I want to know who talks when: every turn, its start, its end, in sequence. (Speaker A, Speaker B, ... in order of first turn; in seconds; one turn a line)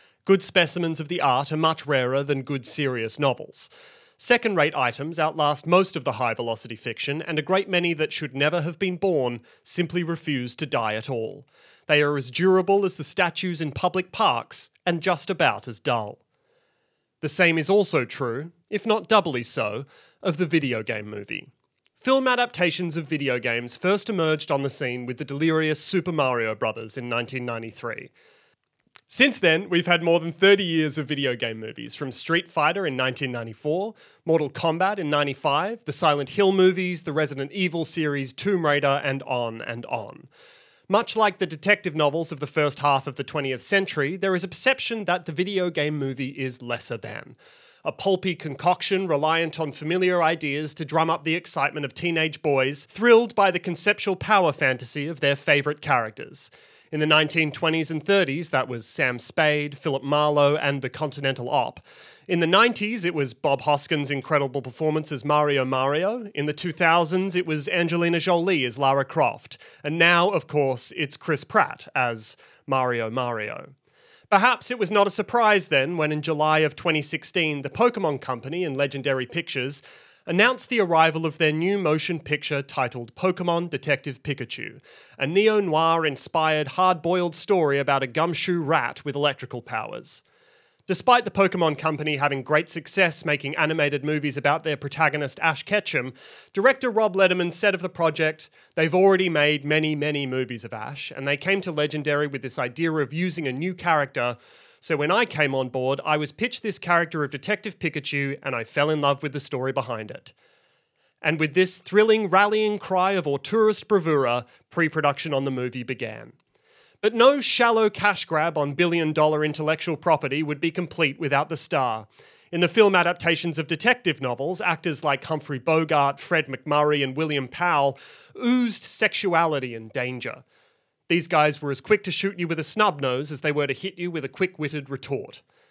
Speaker A: 0.2-16.2
Speaker A: 17.2-28.1
Speaker A: 29.1-40.3
Speaker A: 40.9-73.7
Speaker A: 74.3-90.2
Speaker A: 90.9-110.3
Speaker A: 111.2-116.3
Speaker A: 117.0-130.4
Speaker A: 131.1-135.4